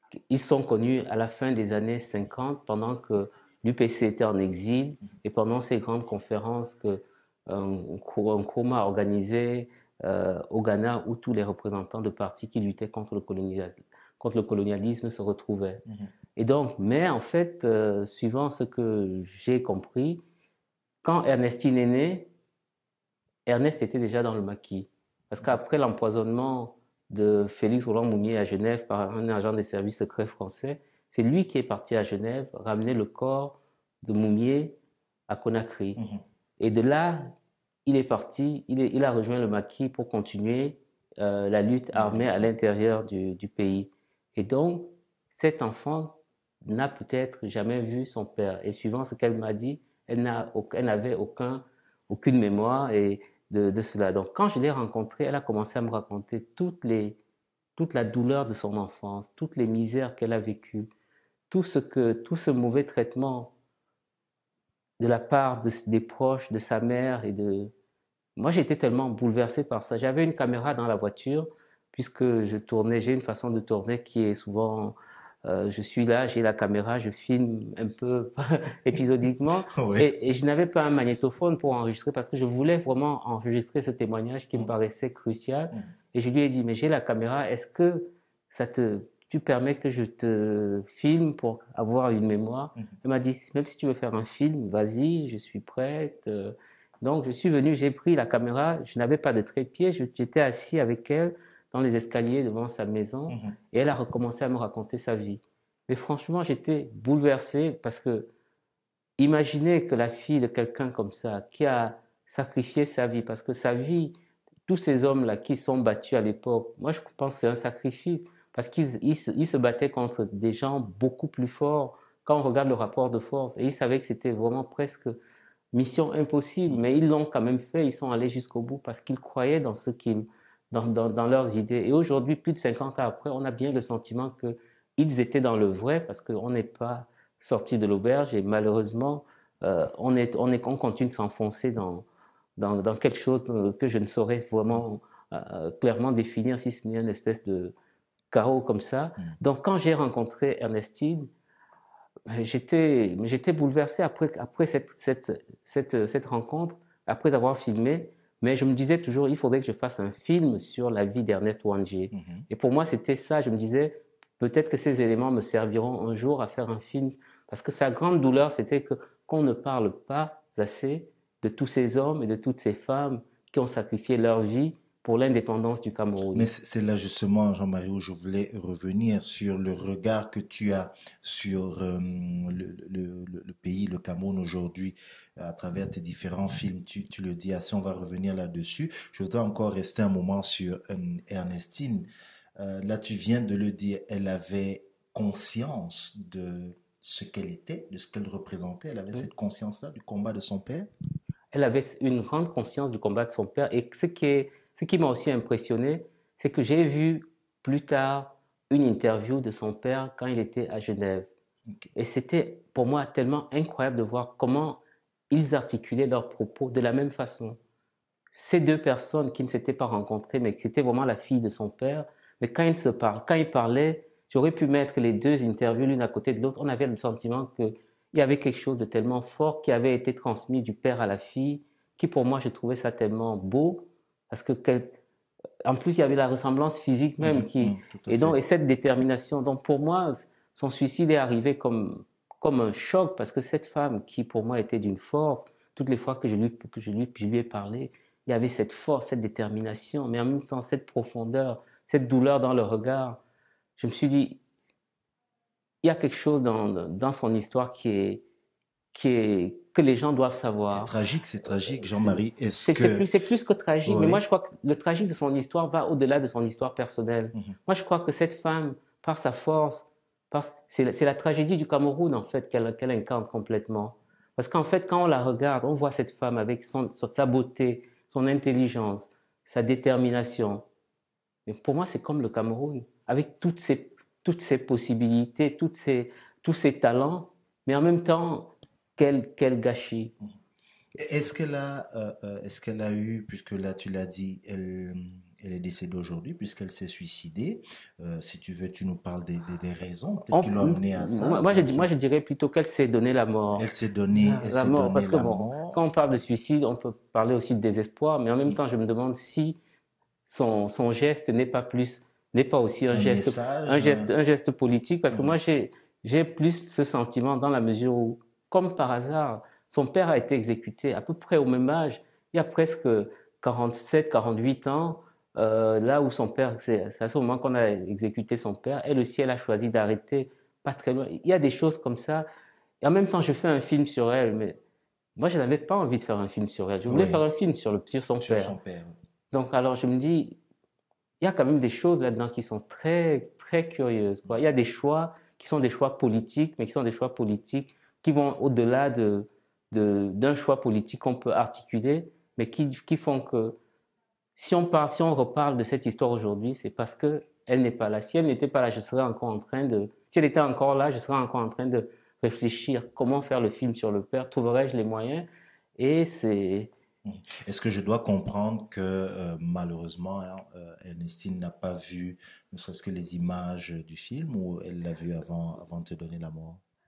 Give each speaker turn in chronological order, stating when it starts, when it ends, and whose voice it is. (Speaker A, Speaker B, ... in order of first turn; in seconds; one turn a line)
Speaker A: 0.3-15.8
Speaker A: 16.4-20.2
Speaker A: 21.0-22.3
Speaker A: 23.5-34.8
Speaker A: 35.3-36.0
Speaker B: 36.0-36.2
Speaker A: 36.6-37.3
Speaker A: 37.9-57.2
Speaker B: 41.9-42.5
Speaker A: 57.8-60.9
Speaker A: 61.5-63.5
Speaker A: 65.0-67.7
Speaker A: 68.4-108.3
Speaker B: 79.7-80.1
Speaker B: 103.3-103.6
Speaker A: 109.2-114.2
Speaker A: 114.7-125.2
Speaker A: 125.7-142.1
Speaker A: 142.6-147.7
Speaker A: 148.3-151.3
Speaker A: 152.3-176.5
Speaker B: 162.1-162.5
Speaker B: 176.3-200.9
Speaker A: 201.5-211.3
Speaker A: 211.9-217.6
Speaker A: 218.3-235.0
Speaker A: 235.6-253.2
Speaker B: 237.2-238.4
Speaker A: 253.8-254.4
Speaker A: 255.8-258.2
Speaker A: 258.9-260.9
Speaker B: 260.7-263.1
Speaker A: 261.9-280.6
Speaker B: 263.9-264.2
Speaker A: 281.5-290.1
Speaker B: 290.9-301.9
Speaker A: 300.3-309.6
Speaker B: 303.6-306.2
Speaker A: 310.3-332.3
Speaker B: 312.9-314.1
Speaker B: 315.1-315.4
Speaker A: 332.8-334.6
Speaker A: 335.2-338.5
Speaker B: 336.9-337.2
Speaker B: 338.2-338.9
Speaker A: 339.3-340.4
Speaker A: 341.2-353.6
Speaker A: 354.4-365.3
Speaker A: 365.8-366.7
Speaker B: 367.0-376.6